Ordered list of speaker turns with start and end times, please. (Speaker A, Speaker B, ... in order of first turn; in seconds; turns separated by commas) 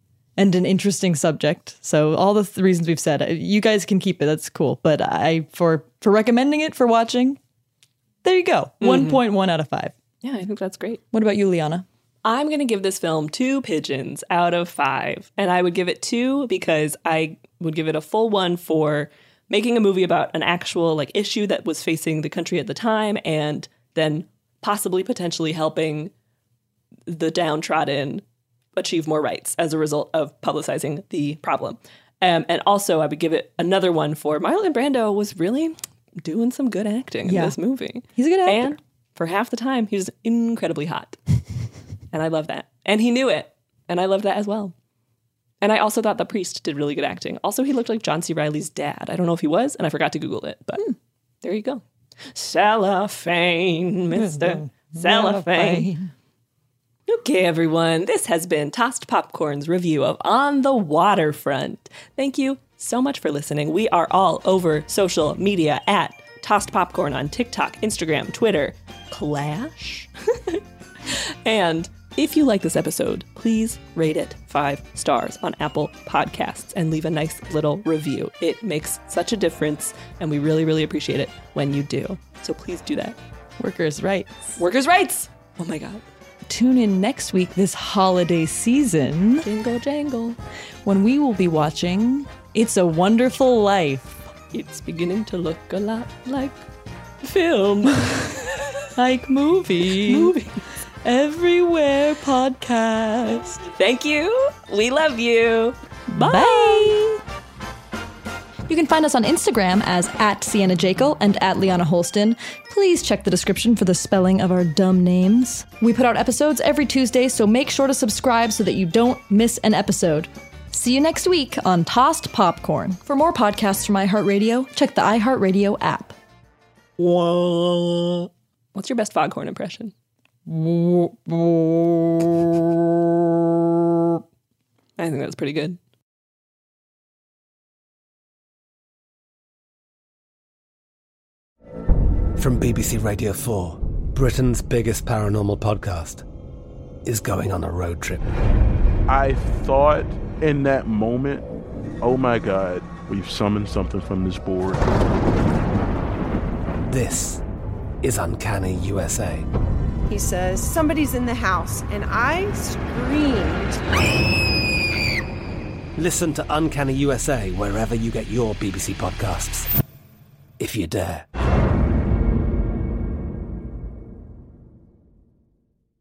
Speaker A: 0.4-7.4, Speaker A: 8.2-9.9, Speaker B: 8.8-9.2, Speaker B: 10.2-11.0, Speaker A: 11.1-11.9, Speaker B: 12.2-26.1, Speaker B: 27.1-28.2, Speaker B: 28.8-41.2, Speaker A: 37.2-38.8, Speaker B: 42.1-44.7, Speaker B: 45.6-50.9, Speaker B: 51.4-51.8, Speaker B: 52.3-55.9, Speaker A: 54.1-56.1, Speaker B: 57.1-83.2, Speaker A: 83.6-84.3, Speaker B: 84.6-86.0, Speaker A: 86.5-89.5, Speaker B: 89.4-90.4, Speaker A: 90.8-94.2, Speaker B: 94.5-96.6, Speaker B: 97.2-98.7, Speaker A: 99.0-100.3, Speaker B: 99.9-100.6, Speaker A: 101.0-103.6, Speaker B: 103.7-107.2, Speaker A: 106.2-107.0, Speaker A: 108.7-126.2, Speaker B: 127.0-129.9, Speaker A: 130.5-134.2, Speaker B: 135.0-135.8, Speaker C: 142.4-146.2, Speaker C: 147.1-148.4, Speaker D: 149.1-151.4, Speaker D: 152.0-154.8, Speaker C: 156.9-157.4, Speaker C: 158.0-159.5, Speaker E: 160.1-163.8, Speaker C: 166.0-169.7, Speaker C: 170.6-171.2